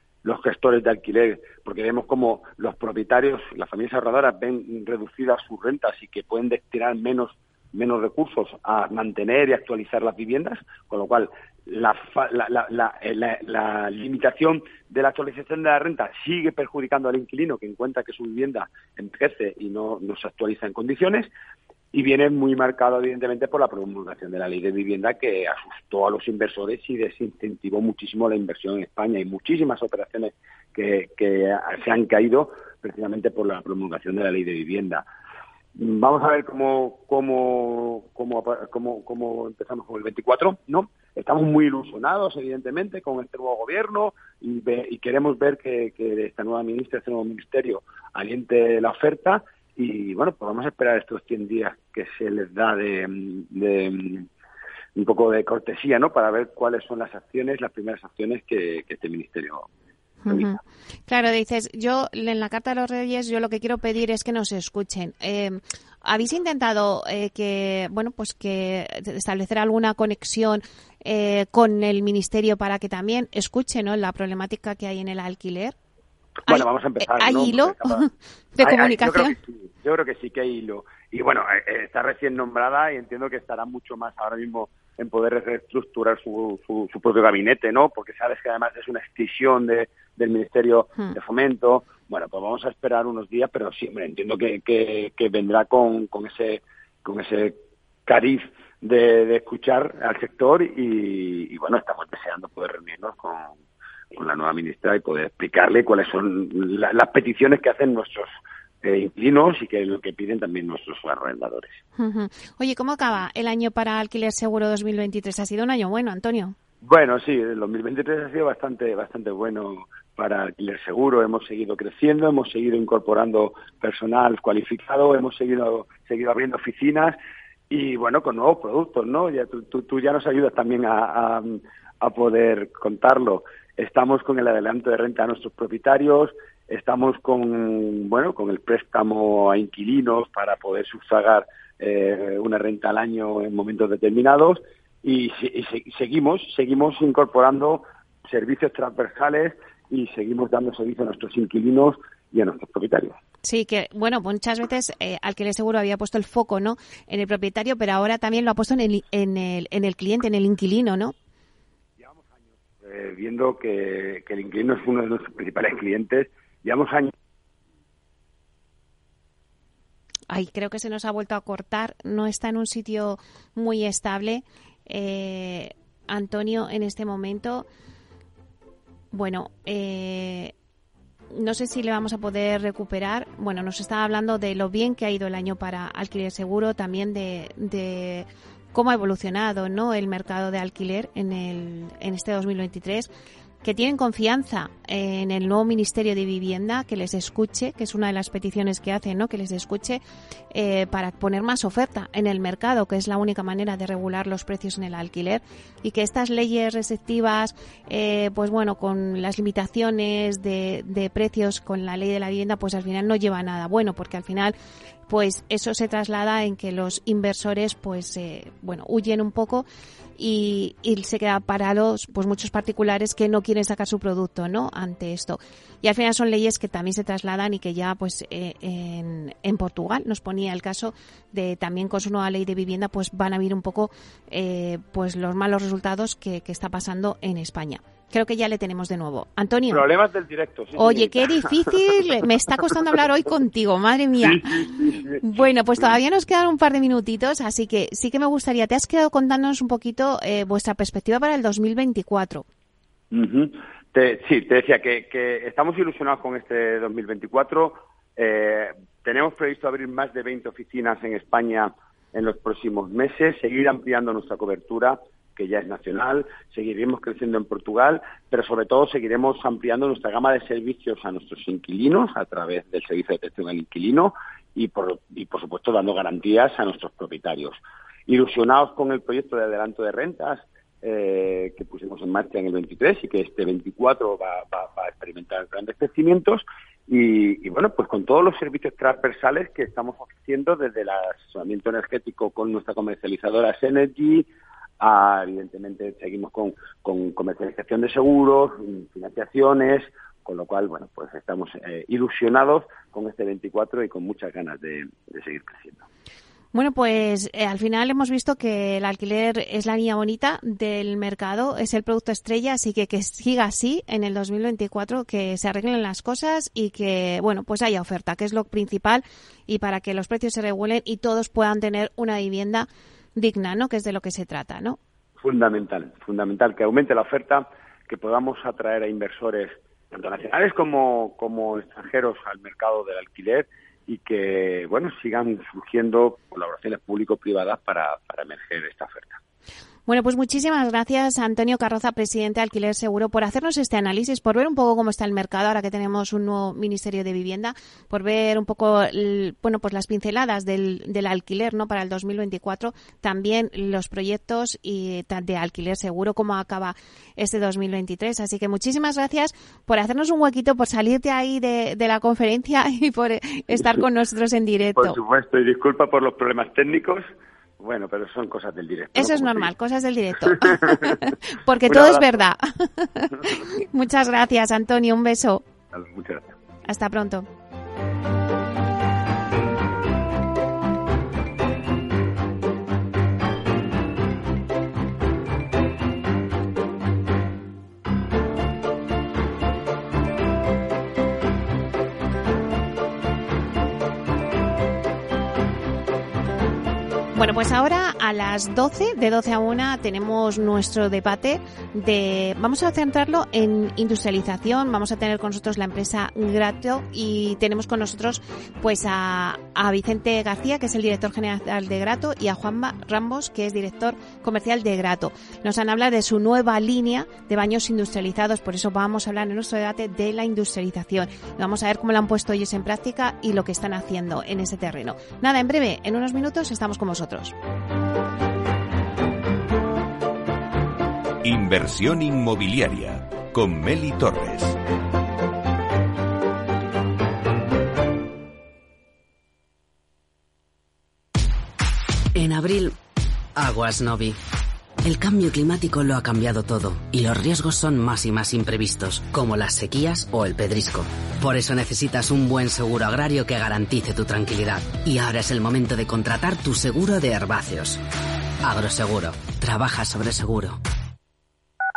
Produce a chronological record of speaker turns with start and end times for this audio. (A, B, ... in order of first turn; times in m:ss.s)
0:00.2-0:21.3 A
0:21.9-0:35.0 A
0:35.7-0:54.3 A
0:54.9-0:59.7 A
1:00.2-1:15.7 B
1:00.3-1:00.6 A
1:16.5-1:18.1 A
1:16.5-1:19.4 B
1:18.6-1:43.6 A
1:44.1-1:48.3 A
1:48.8-1:51.8 A
1:52.0-1:56.6 B
1:56.8-2:07.2 A
2:07.7-2:33.2 A
2:33.4-2:41.1 B
2:42.0-2:47.1 A
2:50.3-2:57.6 B
2:59.1-3:00.5 B
3:01.3-3:13.1 B
3:13.6-3:34.6 B
3:35.1-3:39.6 B
3:40.2-3:59.8 B
3:59.7-4:01.7 A
4:00.8-4:12.4 B
4:04.2-4:06.0 A
4:13.1-4:54.3 A
4:54.8-5:05.8 A
5:06.5-5:24.8 B
5:25.2-5:39.2 A
5:39.9-6:05.0 B
6:03.5-6:03.8 A
6:04.7-6:09.5 A
6:08.9-6:15.4 B
6:10.2-6:11.1 A
6:11.7-6:12.2 A
6:15.7-6:16.3 A
6:16.7-6:17.3 B
6:37.1-7:07.3 B
7:11.2-7:14.6 C
7:22.1-7:22.8 D
7:23.4-7:24.2 D
7:24.8-7:37.8 D
7:38.4-7:40.6 D